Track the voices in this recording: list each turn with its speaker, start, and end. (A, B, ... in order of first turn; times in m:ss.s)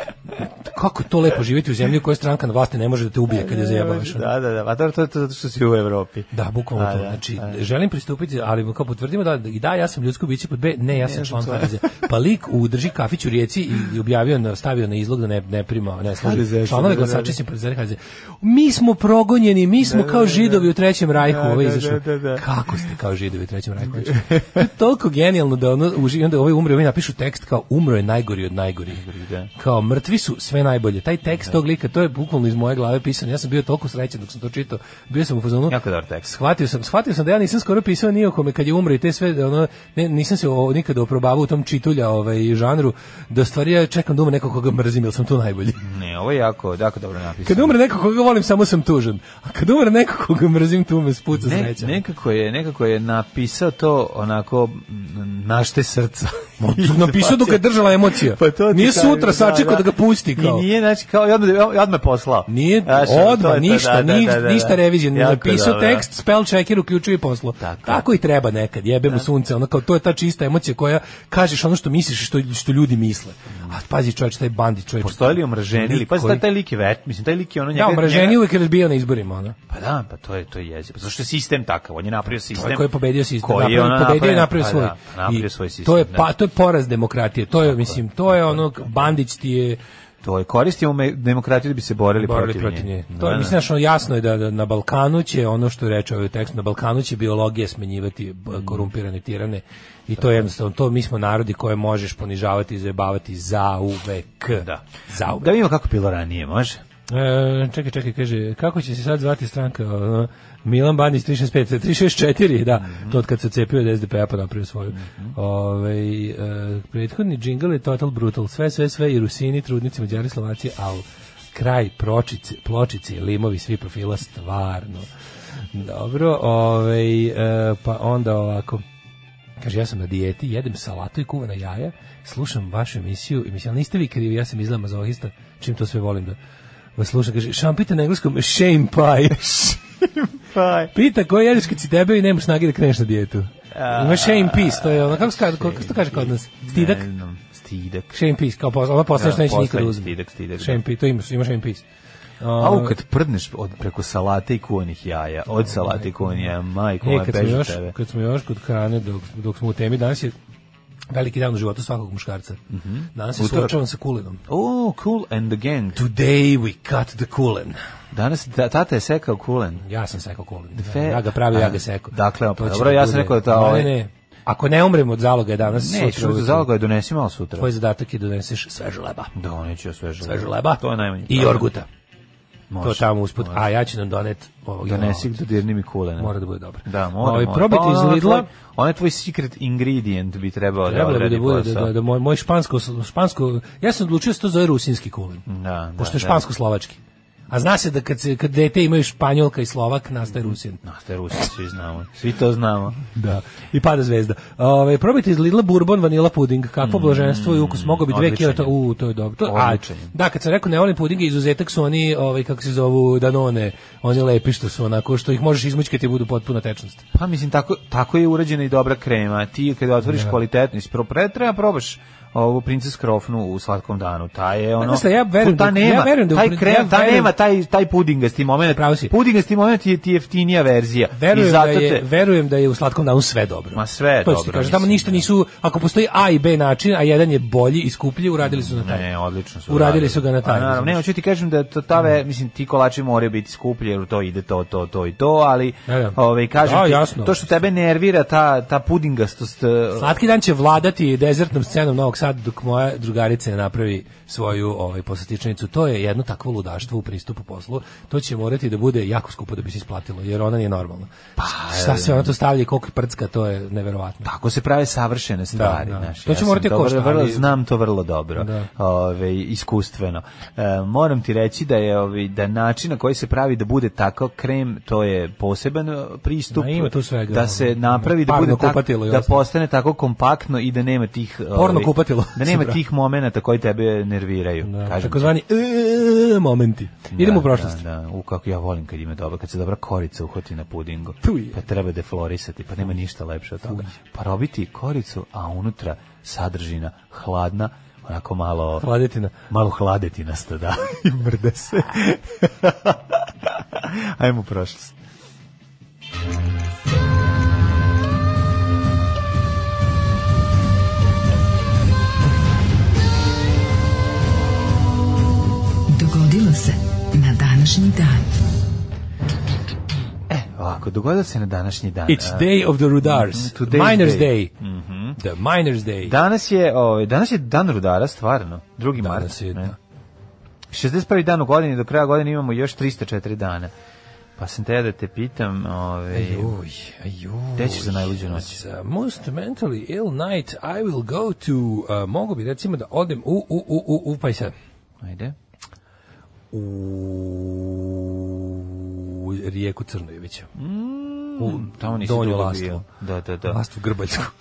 0:00.4-0:04.3 A
0:03.3-0:07.6 B
0:06.3-0:29.0 A
0:11.0-0:11.9 B
0:16.2-0:17.4 B
0:19.8-0:22.4 B
0:23.9-0:24.6 B
0:28.9-0:29.5 B
0:29.6-0:45.8 A
0:35.7-0:36.3 B
0:45.8-0:47.8 B
0:47.4-0:52.0 A
0:51.4-1:06.1 B
0:56.6-1:00.6 A
1:02.5-1:16.4 A
1:07.6-1:08.1 B
1:15.0-1:18.4 B
1:17.7-1:19.6 A
1:19.7-1:22.9 B
1:22.5-1:29.8 A
1:23.4-1:26.3 B
1:27.6-1:29.1 B
1:30.2-1:33.6 B
1:32.2-1:45.5 A
1:38.5-1:38.9 B
1:44.5-1:46.8 B
1:47.1-2:05.1 A
1:52.8-1:53.2 B
1:54.9-1:55.4 B
2:05.7-2:08.8 A
2:09.6-2:16.4 A
2:17.0-2:19.7 A
2:19.4-2:20.9 B
2:20.9-2:27.0 A
2:23.7-2:28.2 B
2:28.1-2:31.8 A
2:29.2-2:30.8 B
2:32.4-2:33.0 A
2:32.6-2:37.9 B
2:35.6-2:36.5 A
2:37.0-2:40.3 A
2:41.1-2:42.6 A
2:42.7-2:43.8 B
2:43.2-2:44.4 A
2:44.5-2:46.0 B
2:46.0-2:47.8 A
2:48.1-2:49.8 B
2:49.8-2:56.7 A
2:50.8-2:53.9 B
2:55.6-2:57.7 B
2:57.6-2:59.3 A
2:59.4-3:01.7 B
3:00.2-3:01.9 A
3:02.7-3:03.6 B
3:02.8-3:05.3 A
3:04.8-3:06.3 B
3:06.2-3:08.5 A
3:06.8-3:11.9 B
3:10.9-3:15.4 A
3:15.5-3:16.4 B
3:16.0-3:20.8 A
3:20.3-3:23.0 B
3:23.1-3:37.0 A
3:26.8-3:28.7 B
3:29.4-3:30.1 B
3:37.1-3:52.0 B
3:40.1-3:40.3 A
3:44.8-3:47.3 A
3:48.7-3:49.1 A
3:51.2-3:59.1 A
3:53.8-3:55.2 B
3:58.4-4:10.2 B
3:59.7-4:01.0 A
4:05.9-4:07.4 A
4:10.0-4:24.3 A
4:21.4-4:22.3 B
4:24.2-4:45.3 B
4:25.5-4:27.5 A
4:28.4-4:28.7 A
4:36.5-4:39.4 A
4:41.6-4:42.8 A
4:44.6-4:47.8 A
4:47.1-4:58.9 B
4:51.2-4:51.6 A
4:58.8-4:59.4 A
4:59.5-5:04.9 B
5:15.9-5:18.2 C
5:20.3-5:25.2 B
5:22.1-5:24.5 A
5:25.2-5:26.2 A
5:26.0-5:29.8 B
5:29.0-5:29.8 A
5:30.7-5:33.7 B
5:34.4-5:36.6 B
5:36.1-5:44.5 A
5:37.6-5:38.6 B
5:45.0-5:45.4 B
5:46.5-5:50.5 A
5:50.6-5:53.6 B
5:51.4-5:52.8 A
5:53.5-5:54.3 A